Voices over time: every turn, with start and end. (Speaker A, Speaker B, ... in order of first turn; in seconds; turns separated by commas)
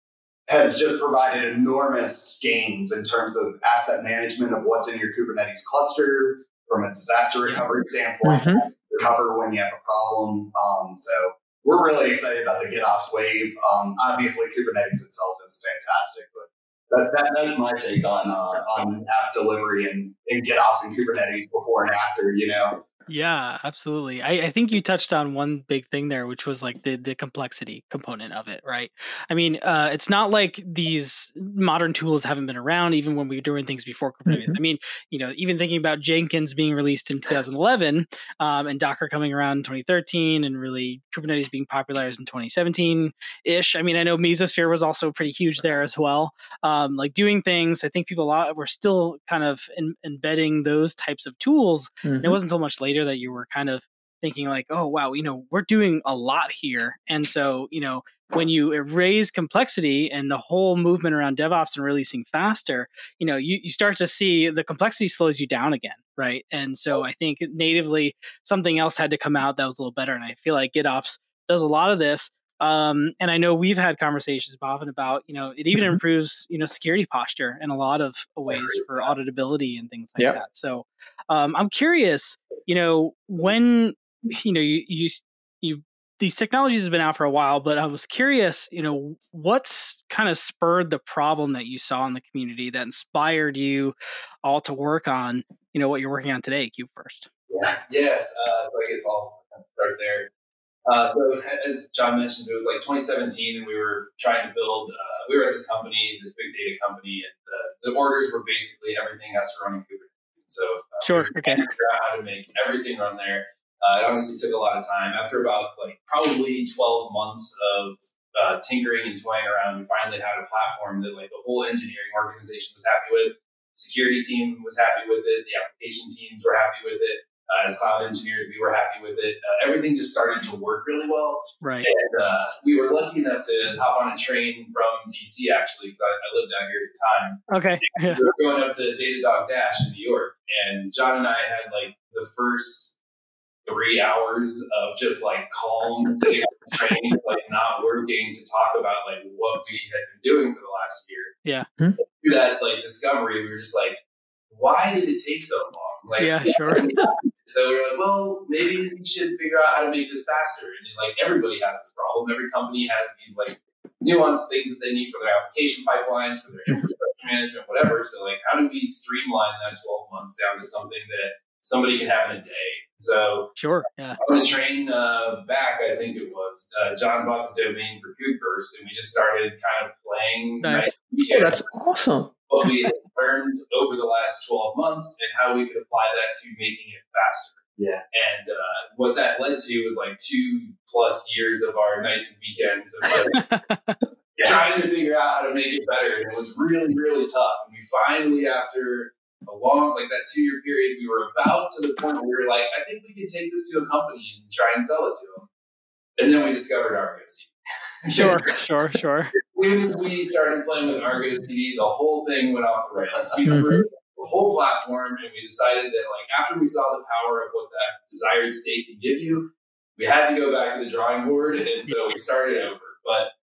Speaker A: 0.5-22.8, Speaker B: 8.2-8.6, Speaker C: 23.1-97.3, Speaker B: 34.3-34.6, Speaker B: 52.0-52.4, Speaker D: 97.6-100.3, Speaker D: 100.8-142.9, Speaker C: 111.0-111.7, Speaker C: 131.6-131.9, Speaker C: 137.5-138.2, Speaker D: 143.6-151.3, Speaker D: 152.2-173.6, Speaker C: 156.2-156.8, Speaker C: 173.6-174.2, Speaker D: 174.2-181.6, Speaker C: 180.6-180.9, Speaker B: 181.3-182.7, Speaker D: 182.5-193.4, Speaker A: 187.8-188.0, Speaker C: 193.1-194.0, Speaker D: 194.4-205.5, Speaker D: 206.2-208.4, Speaker C: 208.1-209.3, Speaker D: 209.5-223.3, Speaker A: 213.2-213.7, Speaker B: 213.5-213.8